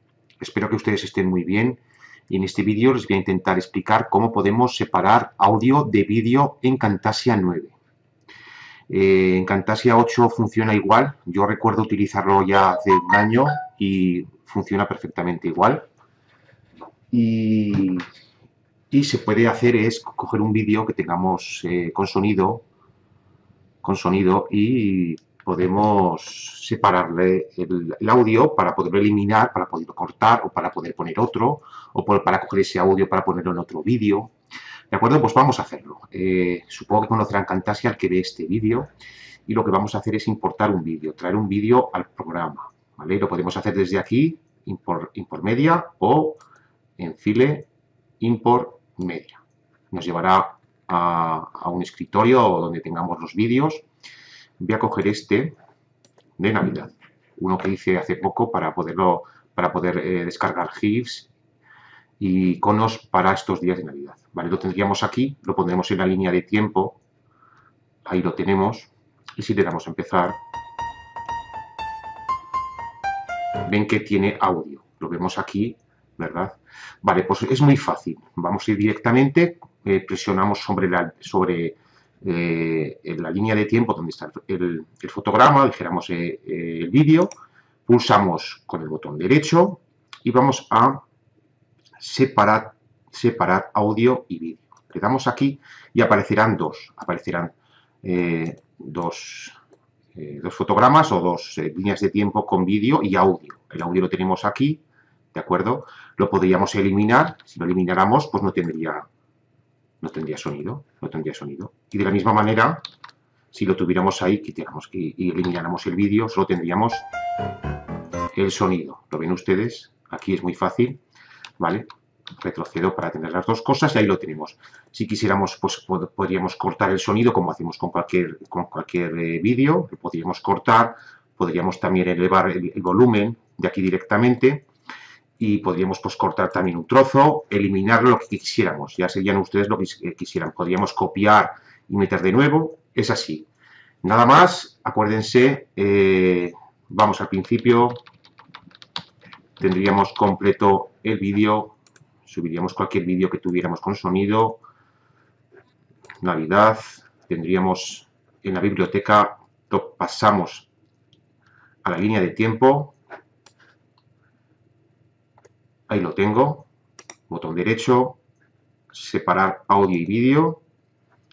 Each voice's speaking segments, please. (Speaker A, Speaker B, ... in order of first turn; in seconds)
Speaker A: 0.4-7.8, 8.9-15.8, 17.1-18.0, 18.9-22.6, 23.8-34.3, 34.9-38.9, 39.5-46.4, 47.0-47.7, 48.2-53.8, 54.6-55.5, 56.4-61.3, 62.2-67.0, 68.0-70.4, 73.6-87.3, 87.8-91.0, 92.0-99.6, 100.2-104.8, 105.3-109.0, 110.0-112.8, 113.5-117.1, 118.3-121.0, 121.6-134.6, 135.4-143.5, 144.0-148.0, 149.6-154.6, 156.2-160.7, 161.8-162.9, 165.9-166.7, 167.3-168.2, 168.9-170.6